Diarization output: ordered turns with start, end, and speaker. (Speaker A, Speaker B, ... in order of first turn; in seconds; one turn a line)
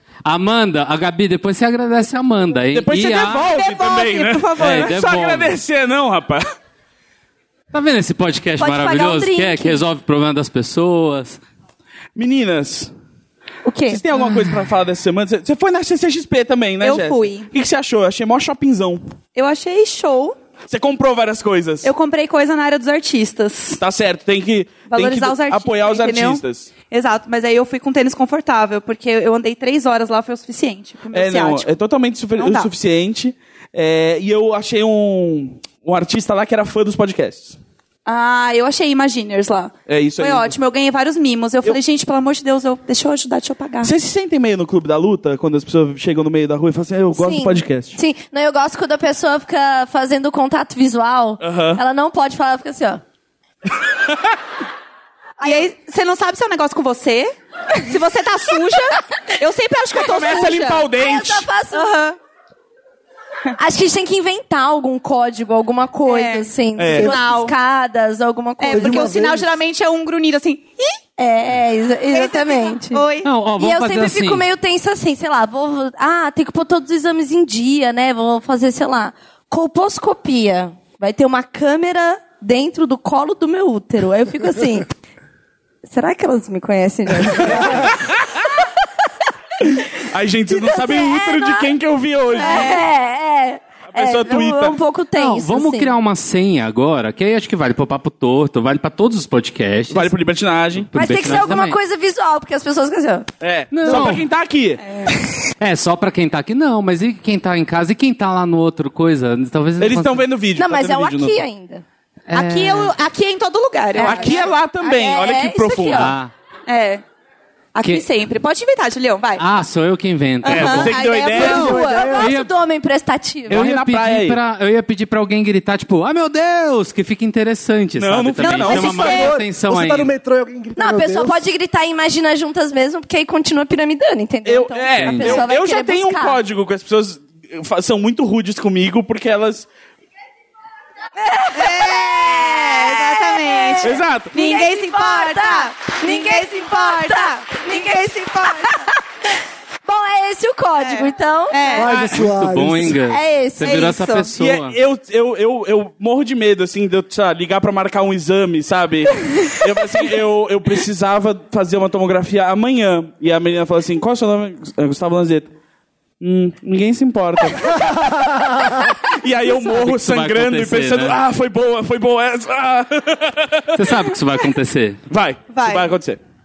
Speaker A: 0.2-3.5
Speaker B: 2.7-6.4
Speaker C: 3.4-5.0
Speaker A: 4.6-5.6
Speaker A: 7.7-11.4
Speaker D: 8.6-9.8
Speaker B: 12.2-12.9
Speaker D: 13.7-14.0
Speaker B: 13.9-19.0
Speaker C: 16.8-17.5
Speaker C: 19.4-20.4
Speaker B: 20.7-21.9
Speaker C: 21.8-23.8
Speaker B: 23.7-26.7
Speaker C: 24.9-31.7
Speaker B: 31.1-37.6
Speaker C: 32.4-32.7
Speaker C: 38.1-43.9
Speaker B: 39.9-40.5
Speaker B: 43.8-48.0
Speaker D: 47.2-53.0
Speaker B: 51.4-51.8
Speaker C: 55.4-60.9
Speaker B: 60.0-61.5
Speaker D: 61.0-61.9
Speaker C: 61.7-62.2
Speaker D: 63.6-69.2
Speaker C: 66.1-67.5
Speaker B: 66.8-67.1
Speaker C: 68.6-71.0
Speaker E: 68.7-69.5
Speaker D: 71.2-73.0
Speaker C: 72.1-73.3
Speaker A: 73.2-74.5
Speaker D: 73.6-84.9
Speaker D: 85.8-87.9
Speaker B: 87.4-87.9
Speaker B: 89.6-92.8
Speaker D: 90.5-91.7
Speaker D: 92.4-95.9
Speaker C: 92.4-92.7
Speaker B: 93.9-94.8
Speaker A: 95.2-100.1
Speaker B: 99.9-100.9
Speaker A: 100.9-101.8
Speaker D: 100.9-103.3
Speaker B: 103.4-104.8
Speaker A: 103.7-104.2
Speaker E: 103.9-104.2
Speaker A: 105.6-110.3
Speaker B: 109.8-111.4
Speaker D: 110.6-111.8
Speaker A: 112.3-113.0
Speaker C: 112.3-114.5
Speaker D: 114.0-116.2
Speaker B: 114.0-116.1
Speaker A: 115.9-116.3
Speaker C: 116.7-117.0
Speaker C: 117.7-119.4
Speaker A: 119.4-121.0
Speaker C: 120.4-122.2
Speaker B: 120.5-121.8
Speaker D: 121.3-123.6
Speaker E: 121.4-122.3
Speaker A: 122.2-122.5
Speaker A: 123.5-130.1
Speaker B: 123.5-124.4
Speaker B: 128.0-129.4
Speaker C: 128.4-129.3
Speaker E: 128.9-131.5
Speaker D: 130.8-136.4
Speaker B: 134.4-139.7
Speaker A: 135.0-135.5
Speaker D: 141.2-148.6
Speaker C: 141.6-148.8
Speaker B: 143.8-144.3
Speaker D: 149.8-151.9
Speaker C: 150.8-151.9
Speaker E: 151.8-153.0
Speaker A: 152.0-154.8
Speaker D: 153.0-153.9
Speaker C: 153.6-154.3
Speaker B: 154.4-165.5
Speaker B: 166.2-168.1
Speaker B: 168.7-173.8
Speaker A: 169.5-171.2
Speaker A: 173.8-175.0
Speaker B: 175.1-176.2
Speaker C: 175.5-175.9